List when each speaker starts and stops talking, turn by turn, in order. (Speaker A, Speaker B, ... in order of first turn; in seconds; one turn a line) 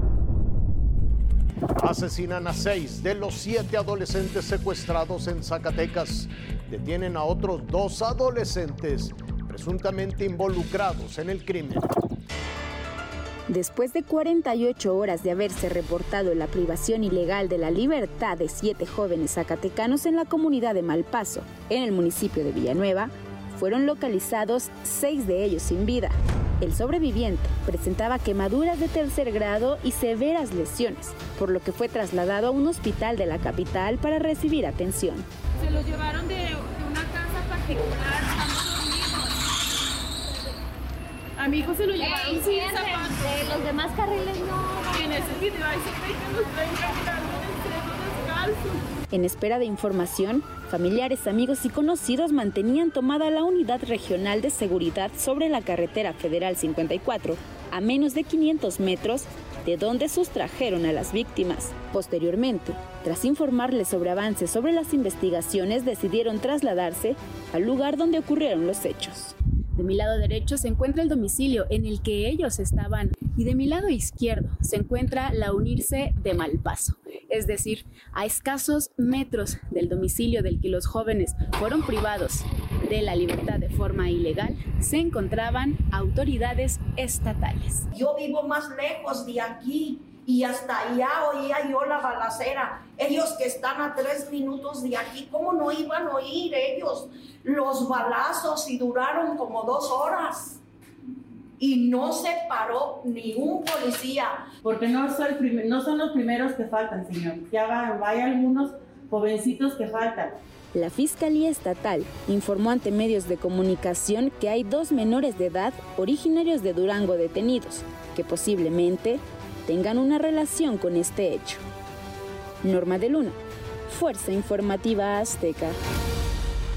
Speaker A: 1.8-11.9
Speaker B: 13.5-35.3
Speaker C: 35.6-39.4
Speaker C: 41.4-43.6
Speaker D: 42.0-44.9
Speaker C: 44.8-48.8
Speaker B: 49.1-87.8
Speaker E: 87.9-100.6
Speaker E: 101.6-104.4
Speaker F: 104.6-110.3
Speaker B: 110.7-121.6
Speaker B: 122.6-123.4
Speaker B: 123.9-125.8